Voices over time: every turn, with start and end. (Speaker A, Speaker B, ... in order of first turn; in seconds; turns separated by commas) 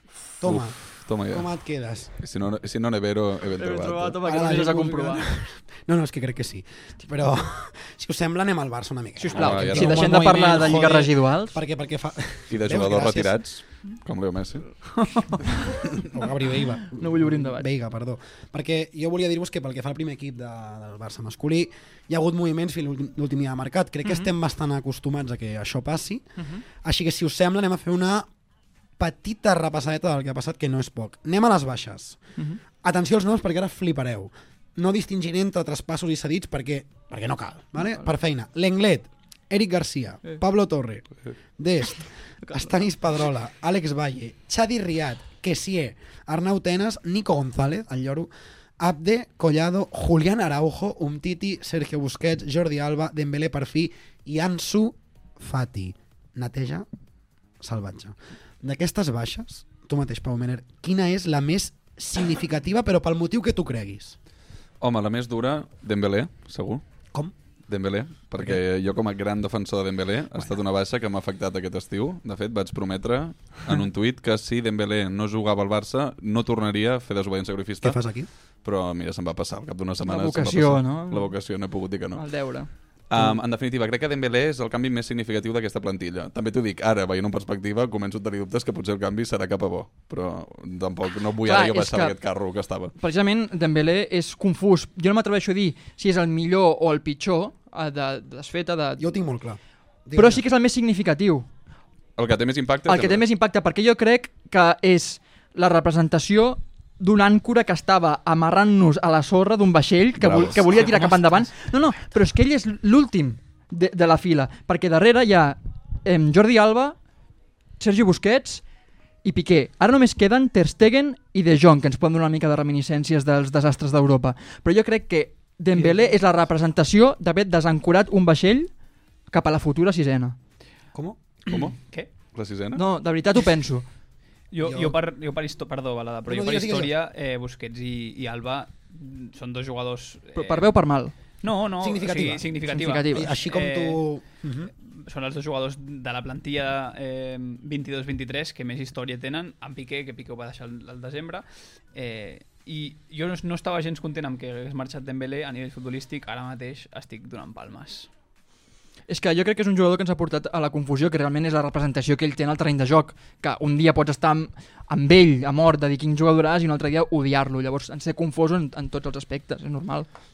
Speaker A: 0.4-2.1, Speaker B: 0.5-1.5, Speaker B: 2.2-4.2, Speaker C: 3.6-5.3, Speaker A: 4.2-13.4, Speaker C: 9.2-11.6, Speaker B: 9.3-10.1, Speaker B: 12.5-14.6, Speaker A: 15.8-28.3, Speaker C: 16.9-17.7, Speaker C: 24.1-24.3, Speaker A: 29.0-32.2, Speaker A: 32.8-56.9, Speaker C: 42.4-42.7, Speaker A: 57.6-64.2, Speaker B: 64.8-66.8, Speaker B: 67.7-78.1, Speaker A: 77.8-78.3, Speaker B: 78.6-82.2, Speaker C: 80.0-81.3, Speaker C: 82.1-82.7, Speaker B: 83.1-92.9, Speaker C: 91.4-92.2, Speaker C: 93.0-99.1, Speaker A: 99.0-100.4, Speaker C: 100.1-101.5, Speaker B: 102.2-103.2, Speaker C: 102.9-117.0, Speaker B: 110.2-111.1, Speaker C: 117.8-118.6, Speaker C: 119.2-128.7, Speaker C: 129.3-130.4, Speaker A: 130.9-131.2, Speaker B: 131.5-131.8, Speaker D: 131.5-132.1, Speaker B: 132.3-132.8, Speaker C: 132.7-133.9, Speaker D: 134.5-140.7, Speaker A: 134.6-135.0, Speaker A: 136.3-136.9, Speaker C: 140.3-141.1, Speaker D: 141.4-144.0, Speaker A: 141.8-142.6, Speaker C: 142.7-143.3, Speaker A: 143.1-144.7, Speaker D: 144.9-158.1, Speaker C: 159.1-170.1